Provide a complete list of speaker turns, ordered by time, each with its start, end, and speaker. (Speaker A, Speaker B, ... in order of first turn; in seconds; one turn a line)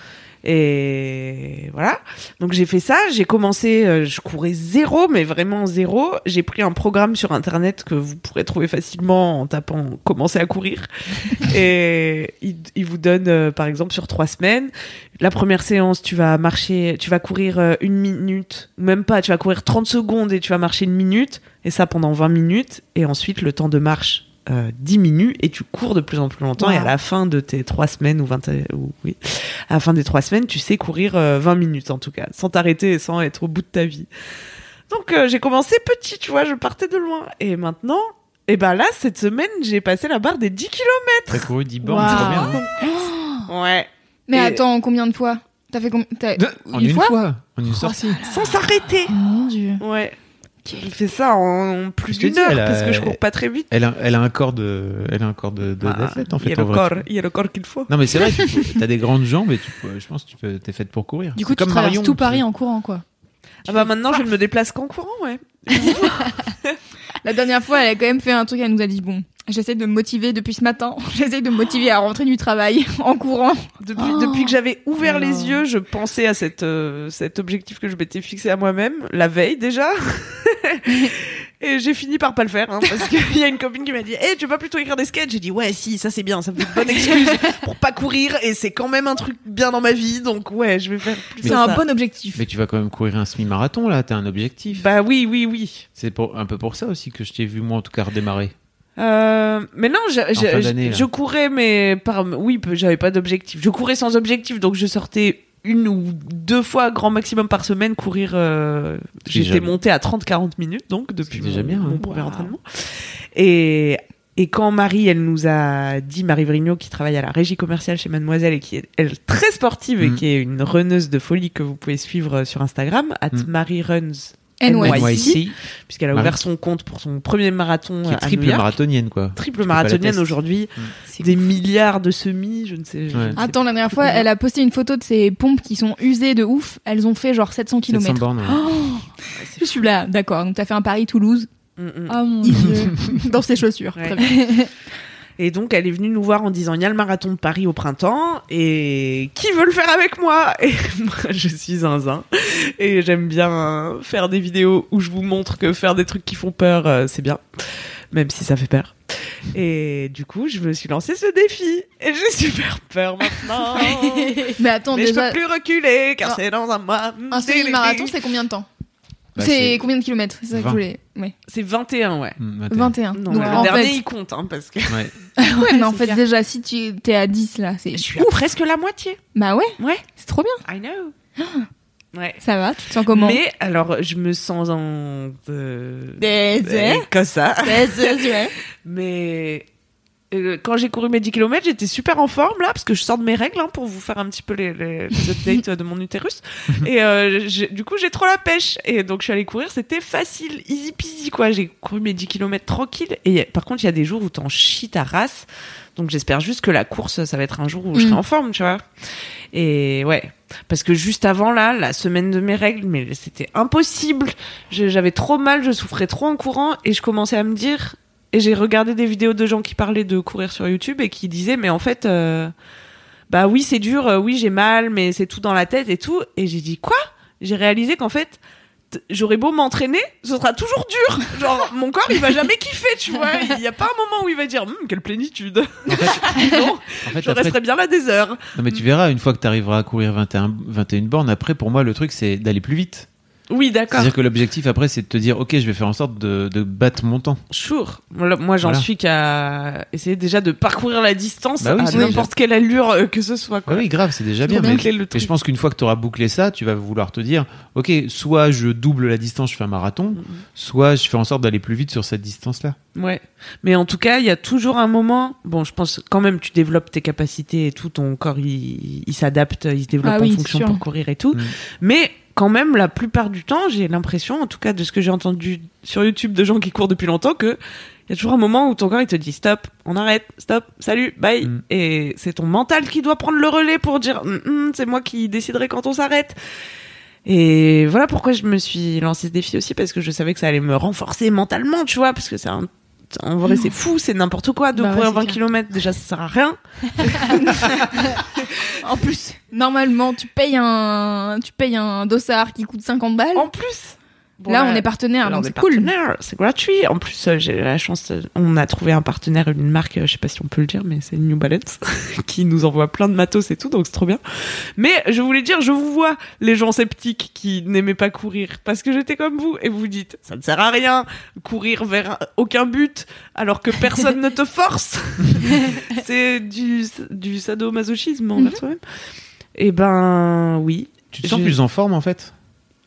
Speaker A: 0.4-34.1
Speaker B: 26.6-26.9
Speaker A: 34.9-41.5
Speaker C: 41.3-42.6
Speaker D: 41.8-42.6
Speaker A: 42.0-42.6
Speaker B: 42.8-43.4
Speaker A: 43.5-44.6
Speaker B: 44.3-47.1
Speaker C: 46.4-48.2
Speaker A: 48.2-49.1
Speaker D: 49.1-49.8
Speaker A: 49.8-50.1
Speaker A: 50.8-53.7
Speaker C: 52.1-57.0
Speaker A: 55.8-57.9
Speaker C: 57.9-62.4
Speaker D: 61.3-63.0
Speaker A: 63.7-66.7
Speaker D: 65.8-66.3
Speaker B: 67.2-73.6
Speaker A: 73.8-91.8
Speaker D: 74.0-75.6
Speaker B: 91.4-92.4
Speaker C: 91.4-91.8
Speaker C: 92.3-94.9
Speaker A: 94.7-95.8
Speaker C: 96.0-98.5
Speaker A: 99.0-128.7
Speaker C: 100.3-101.1
Speaker C: 109.3-109.7
Speaker C: 111.3-112.5
Speaker B: 124.6-125.4
Speaker C: 124.8-125.5
Speaker C: 126.1-126.4
Speaker C: 128.0-130.9
Speaker A: 129.3-134.3
Speaker B: 133.4-141.5
Speaker C: 137.9-138.6
Speaker A: 139.3-139.8
Speaker A: 141.8-142.2
Speaker D: 142.1-143.2
Speaker B: 142.4-144.7
Speaker A: 143.9-144.2
Speaker D: 144.1-144.7
Speaker A: 145.4-168.1
Speaker D: 164.3-164.5
Speaker B: 164.6-165.4
Speaker B: 167.3-168.7
Speaker C: 169.3-169.8
Speaker B: 169.4-171.3
Speaker C: 170.5-170.8
Speaker A: 171.5-172.4
Speaker C: 172.4-172.9
Speaker B: 172.7-174.0
Speaker A: 173.1-175.1
Speaker D: 173.3-173.8
Speaker C: 174.9-175.1
Speaker B: 175.4-178.3
Speaker D: 175.6-176.2
Speaker A: 177.9-179.2
Speaker B: 179.3-180.6
Speaker A: 179.8-180.0
Speaker A: 180.6-181.1
Speaker B: 181.4-181.7
Speaker A: 182.1-182.4
Speaker B: 182.4-183.4
Speaker A: 183.1-189.7
Speaker B: 186.2-187.1
Speaker B: 187.6-188.5
Speaker A: 190.3-208.8
Speaker A: 209.5-222.5
Speaker A: 223.3-228.4
Speaker A: 228.9-238.8
Speaker C: 235.9-237.6
Speaker C: 238.5-243.1
Speaker A: 243.5-244.1
Speaker C: 243.9-247.4
Speaker A: 247.5-253.9
Speaker C: 248.6-248.9
Speaker C: 251.6-252.3
Speaker B: 251.9-252.2
Speaker C: 253.7-262.8
Speaker A: 254.5-255.3
Speaker B: 254.5-254.8
Speaker A: 260.1-260.4
Speaker A: 262.9-286.4
Speaker B: 270.0-270.8
Speaker A: 287.2-298.4
Speaker D: 294.8-295.4
Speaker B: 298.8-303.5
Speaker A: 303.3-314.2
Speaker B: 304.5-305.9
Speaker A: 314.8-328.8
Speaker A: 329.6-331.5
Speaker C: 331.1-332.3